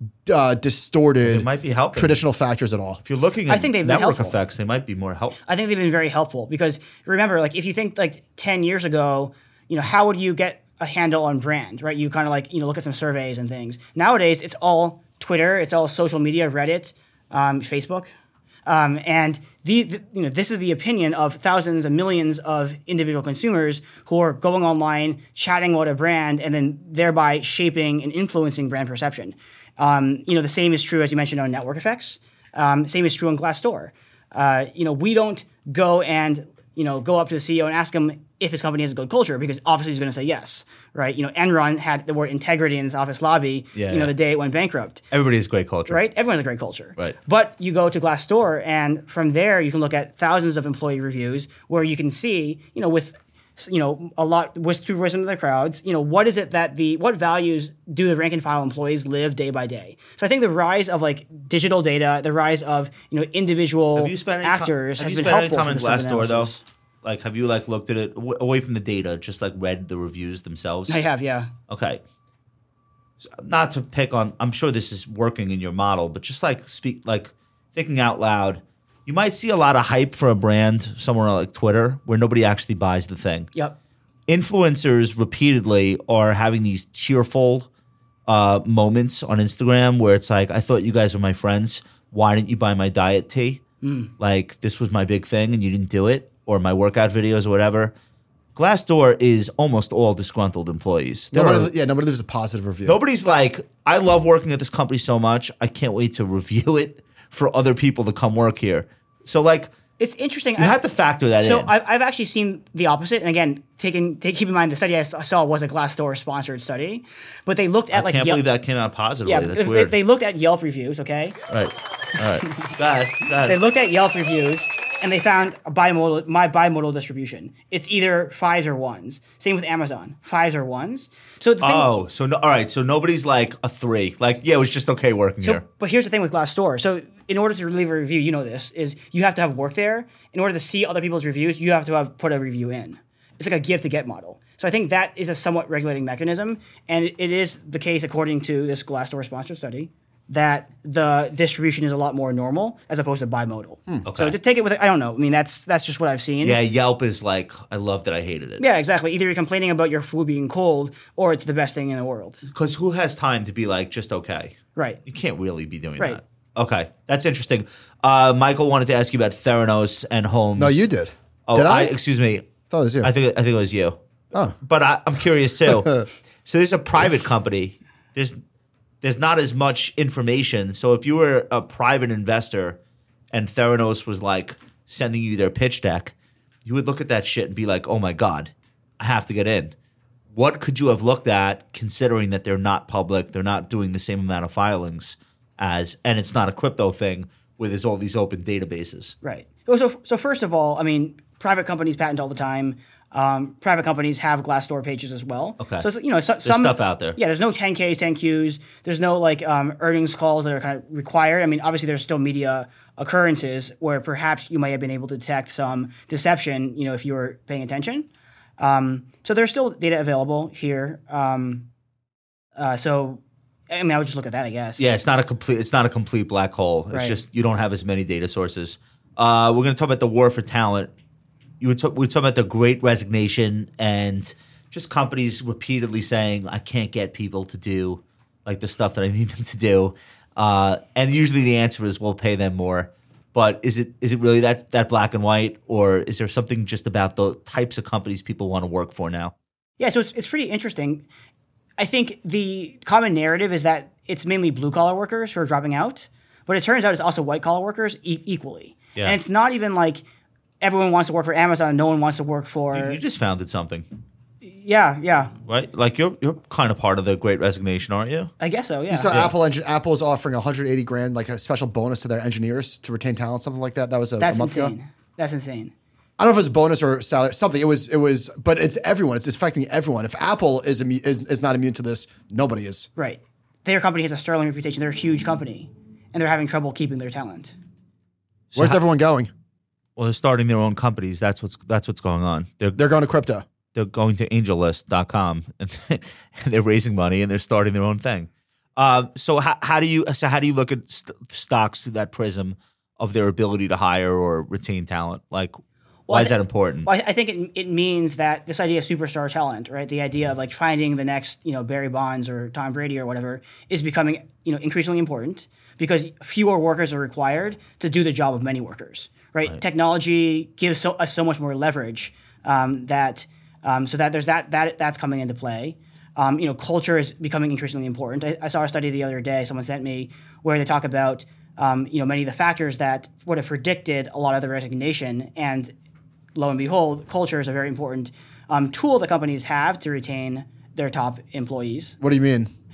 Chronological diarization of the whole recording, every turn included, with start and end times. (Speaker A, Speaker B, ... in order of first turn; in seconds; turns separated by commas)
Speaker A: 0.2-3.0, Speaker B: 1.2-2.2, Speaker B: 3.0-5.4, Speaker C: 3.5-4.3, Speaker C: 5.5-18.1, Speaker C: 18.6-45.0, Speaker B: 43.7-44.1, Speaker B: 45.1-46.0, Speaker C: 45.9-66.6, Speaker B: 63.9-71.0, Speaker C: 70.9-71.5, Speaker B: 71.7-72.0, Speaker B: 73.2-83.5, Speaker B: 84.3-87.7, Speaker B: 88.3-93.6, Speaker C: 93.8-94.1, Speaker B: 94.2-97.9, Speaker B: 98.5-101.7, Speaker A: 101.3-103.0, Speaker B: 102.8-109.7, Speaker C: 110.0-110.8, Speaker B: 110.6-111.7, Speaker C: 111.4-118.4, Speaker B: 117.9-119.9, Speaker C: 119.2-121.4, Speaker B: 121.5-123.6, Speaker C: 123.5-131.9, Speaker B: 131.6-135.6, Speaker C: 135.4-156.6, Speaker B: 154.1-154.3, Speaker B: 156.4-158.6, Speaker C: 158.6-162.4, Speaker B: 162.5-170.8, Speaker A: 170.6-171.9, Speaker B: 171.5-172.5, Speaker A: 172.7-173.1, Speaker B: 173.0-174.0, Speaker B: 174.6-178.4, Speaker B: 179.0-182.8, Speaker B: 183.3-186.1, Speaker B: 186.6-189.7, Speaker B: 190.3-199.2, Speaker C: 199.2-218.1, Speaker B: 205.6-205.9, Speaker B: 206.4-207.2, Speaker C: 218.6-221.7, Speaker C: 222.6-224.9, Speaker B: 224.8-230.9, Speaker C: 226.9-227.2, Speaker B: 231.6-249.3, Speaker C: 249.8-251.1, Speaker C: 251.8-260.0, Speaker C: 260.6-263.0, Speaker B: 262.7-263.8, Speaker C: 264.4-265.3, Speaker B: 265.5-268.3, Speaker C: 268.4-269.2, Speaker A: 268.9-274.7, Speaker C: 274.2-275.7, Speaker A: 276.2-282.9, Speaker C: 283.0-287.5, Speaker B: 288.5-288.8, Speaker A: 288.5-289.3, Speaker B: 289.9-292.8, Speaker A: 292.8-293.4, Speaker B: 293.7-305.6, Speaker C: 306.1-335.7, Speaker B: 306.1-306.9, Speaker C: 336.3-342.0, Speaker A: 342.0-342.5